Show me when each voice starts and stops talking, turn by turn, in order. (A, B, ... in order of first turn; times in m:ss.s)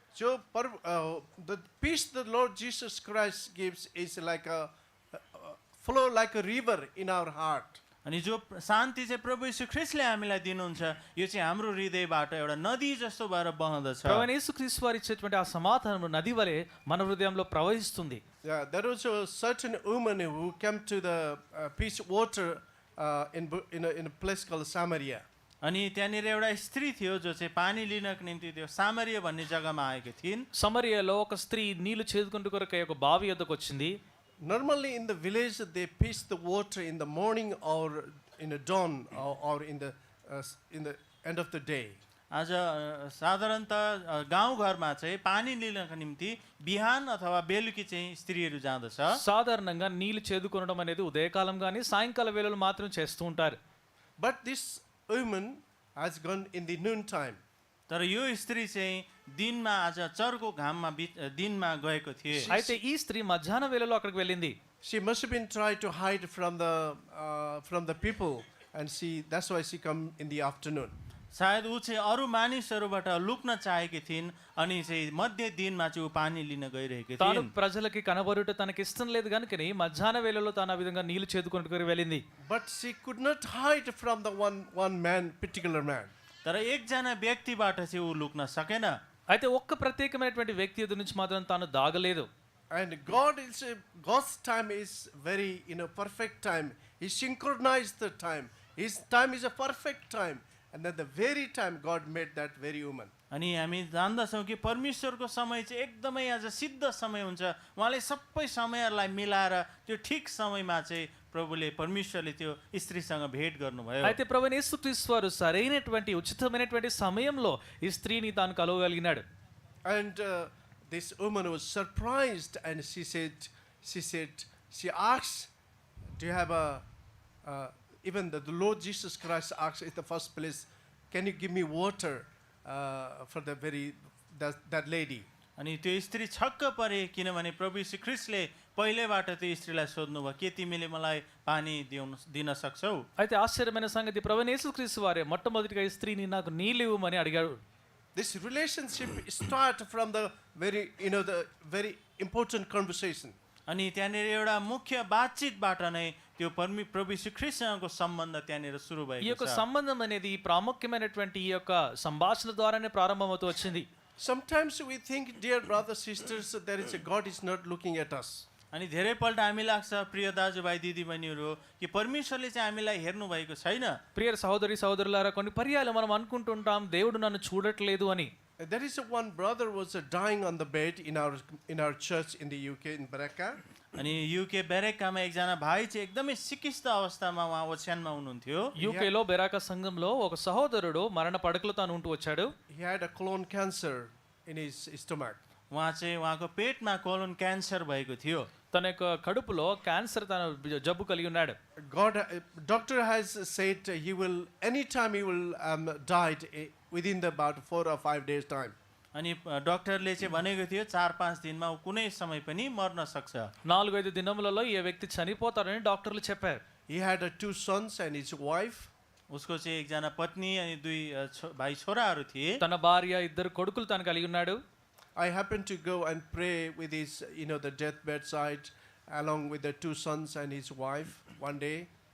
0:00.1-0:07.8 A
0:08.0-0:14.3 B
0:14.0-0:18.2 C
0:18.4-0:25.2 A
0:25.6-0:30.5 B
0:30.5-0:34.0 C
0:34.4-0:42.0 A
0:42.3-0:49.2 B
0:49.1-0:53.6 C
0:54.2-0:57.4 A
0:57.9-1:02.5 B
1:02.3-1:02.7 A
1:02.5-1:04.6 C
1:04.8-1:10.9 A
1:11.3-1:17.5 B
1:17.2-1:22.2 C
1:22.4-1:26.1 A
1:26.4-1:28.9 B
1:29.3-1:32.3 C
1:32.7-1:43.1 A
1:43.3-1:54.2 B
1:54.0-1:59.2 C
1:59.8-2:05.5 A
2:06.2-2:06.8 A
2:07.4-2:15.2 A
2:15.6-2:23.0 B
2:23.2-2:27.6 C
2:28.1-2:33.4 A
2:33.7-2:39.6 B
2:39.2-2:43.8 C
2:44.2-2:48.4 A
2:48.7-2:54.0 B
2:54.1-2:58.3 C
2:58.6-3:03.6 A
3:04.0-3:08.7 B
3:08.8-3:12.5 C
3:08.8-3:09.1 A
3:12.7-3:15.4 A
3:15.7-3:18.5 B
3:18.7-3:21.6 C
3:21.8-3:28.7 A
3:29.1-3:33.5 B
3:33.6-3:36.6 C
3:36.9-3:38.9 A
3:39.3-3:42.6 B
3:42.6-3:44.6 C
3:45.2-3:51.9 A